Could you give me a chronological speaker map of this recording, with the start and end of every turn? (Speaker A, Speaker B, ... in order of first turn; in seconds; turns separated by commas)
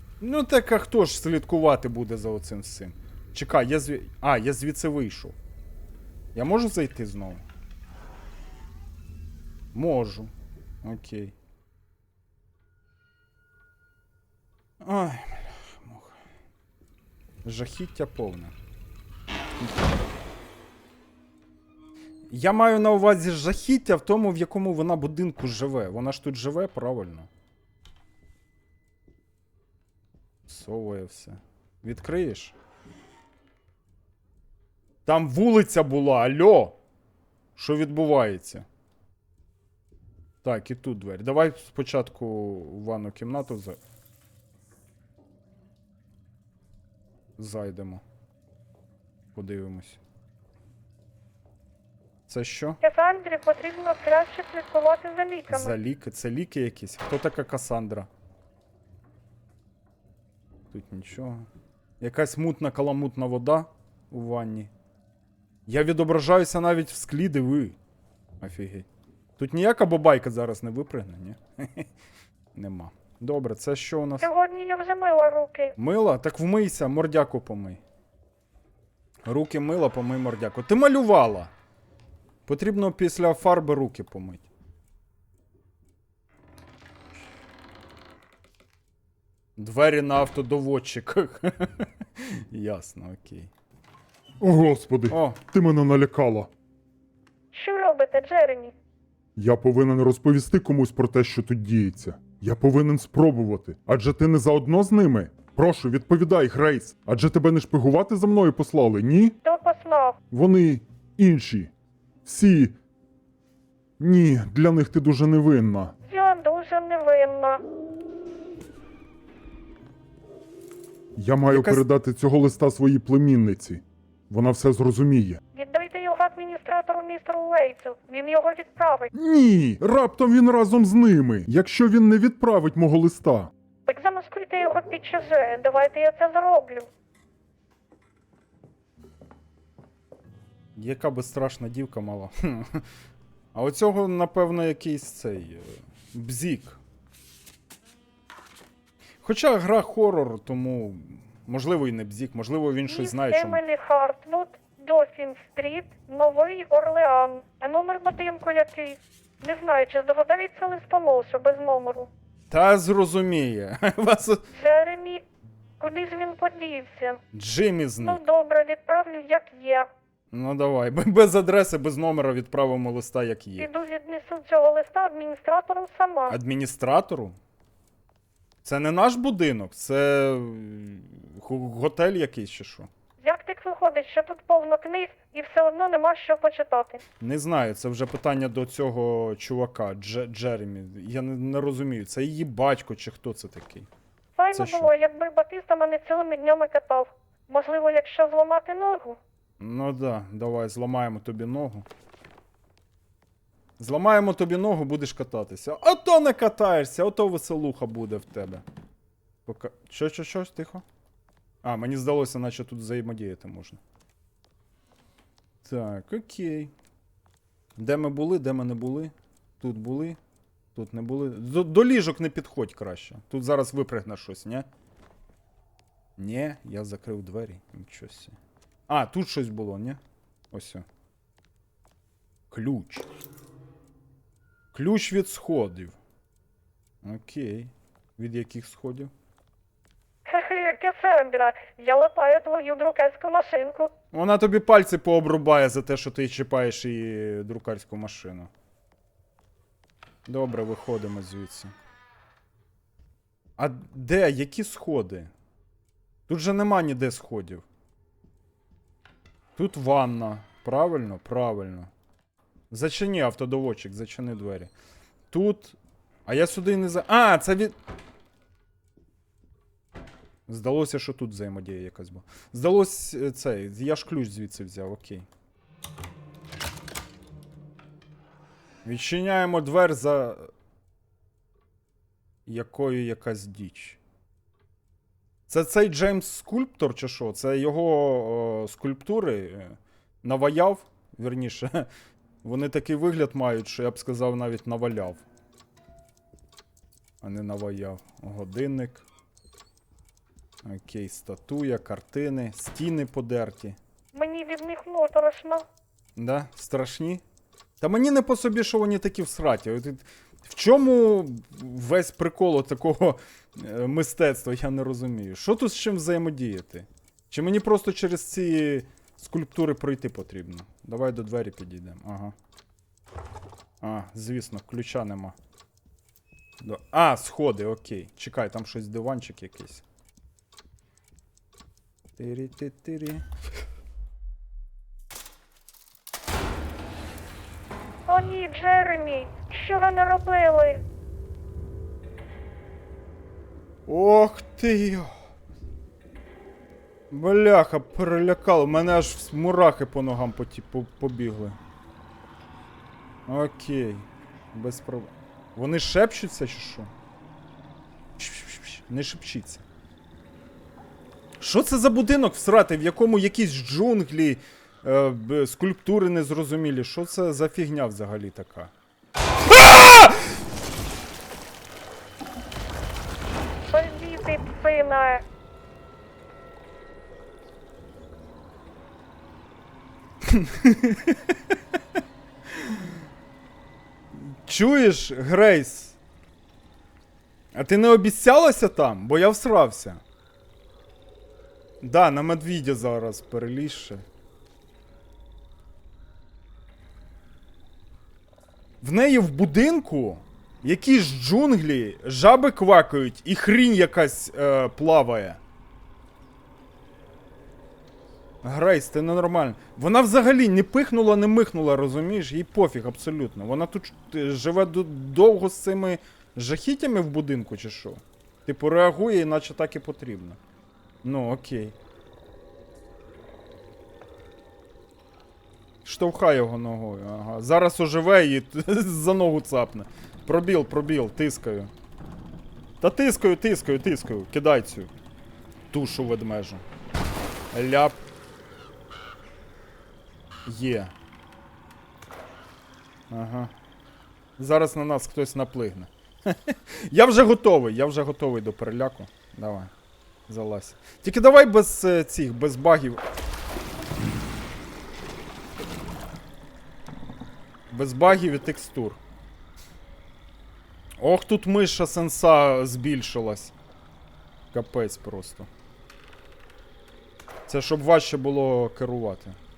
Speaker A: 0.2-5.4, Speaker A: 6.3-7.4, Speaker A: 9.7-10.3, Speaker A: 10.8-11.3, Speaker A: 14.8-16.1, Speaker A: 17.4-18.5, Speaker A: 22.3-27.3, Speaker A: 30.4-32.5, Speaker A: 35.0-36.8, Speaker A: 37.5-38.6, Speaker A: 40.4-43.8, Speaker A: 47.4-48.0, Speaker A: 49.3-50.0, Speaker A: 52.3-52.8, Speaker B: 52.8-55.7, Speaker A: 55.5-58.1, Speaker A: 60.7-61.5, Speaker A: 62.0-64.7, Speaker A: 65.7-67.8, Speaker A: 68.4-68.9, Speaker A: 69.4-71.9, Speaker A: 72.5-74.3, Speaker B: 74.2-75.7, Speaker A: 75.8-77.8, Speaker A: 79.2-81.5, Speaker A: 82.5-84.5, Speaker A: 89.6-93.5, Speaker C: 94.4-96.5, Speaker A: 95.1-95.5, Speaker B: 97.5-98.7, Speaker C: 99.3-105.6, Speaker A: 104.1-104.5, Speaker A: 105.3-107.0, Speaker C: 107.0-109.3, Speaker B: 109.4-110.2, Speaker C: 110.3-111.7, Speaker C: 112.2-112.7, Speaker C: 114.0-115.9, Speaker B: 116.1-117.6, Speaker C: 121.2-125.4, Speaker A: 121.5-121.8, Speaker B: 125.5-129.1, Speaker C: 129.1-133.5, Speaker B: 133.9-136.9, Speaker A: 140.8-142.8, Speaker A: 143.5-146.8, Speaker A: 149.2-153.6, Speaker B: 152.9-162.1, Speaker A: 162.5-164.4, Speaker B: 164.5-165.2, Speaker B: 165.8-167.2, Speaker A: 167.3-168.2, Speaker B: 168.0-169.9, Speaker A: 170.3-173.7, Speaker B: 173.6-176.3, Speaker A: 176.3-177.4, Speaker A: 178.6-182.9, Speaker B: 183.2-187.0, Speaker A: 187.2-193.9, Speaker B: 194.4-199.2, Speaker A: 194.5-194.9, Speaker A: 199.6-201.8, Speaker A: 203.8-208.6, Speaker A: 209.4-210.8, Speaker A: 211.6-213.8, Speaker A: 215.6-216.7, Speaker A: 217.8-220.2, Speaker A: 220.7-224.7, Speaker A: 226.2-228.3, Speaker A: 228.9-230.0, Speaker A: 230.5-230.8, Speaker A: 232.5-233.1, Speaker A: 234.7-235.9, Speaker A: 237.0-239.1, Speaker B: 240.2-243.9, Speaker A: 244.1-248.5, Speaker A: 250.2-251.7, Speaker A: 253.6-255.3, Speaker A: 256.3-257.6, Speaker A: 259.6-261.9, Speaker A: 262.7-264.7, Speaker A: 265.3-267.8, Speaker A: 270.5-275.2, Speaker A: 278.8-280.5, Speaker A: 282.4-284.0, Speaker A: 285.5-291.9, Speaker A: 292.4-295.2, Speaker A: 297.2-299.0, Speaker A: 300.6-303.8, Speaker B: 304.1-305.6, Speaker A: 306.1-307.2, Speaker A: 307.8-322.3, Speaker A: 323.8-325.4, Speaker A: 326.6-329.8, Speaker A: 332.2-333.2, Speaker B: 338.1-340.8, Speaker A: 343.9-345.1, Speaker A: 347.1-351.6, Speaker A: 353.2-356.9, Speaker A: 358.2-359.6, Speaker A: 361.4-368.7, Speaker A: 369.5-370.3, Speaker B: 373.7-375.2, Speaker A: 380.2-381.5, Speaker A: 382.5-382.8, Speaker A: 384.1-386.0, Speaker A: 387.5-390.0, Speaker A: 391.8-394.0, Speaker A: 398.8-405.4, Speaker A: 408.4-420.4, Speaker A: 421.0-421.8, Speaker A: 425.8-431.7, Speaker A: 432.8-434.9, Speaker A: 435.7-436.6, Speaker A: 437.5-438.0, Speaker A: 440.4-440.9, Speaker A: 443.1-443.5, Speaker A: 444.4-449.7, Speaker A: 450.3-453.0, Speaker A: 457.7-459.0, Speaker A: 461.0-463.5, Speaker A: 464.5-465.5, Speaker A: 467.5-469.4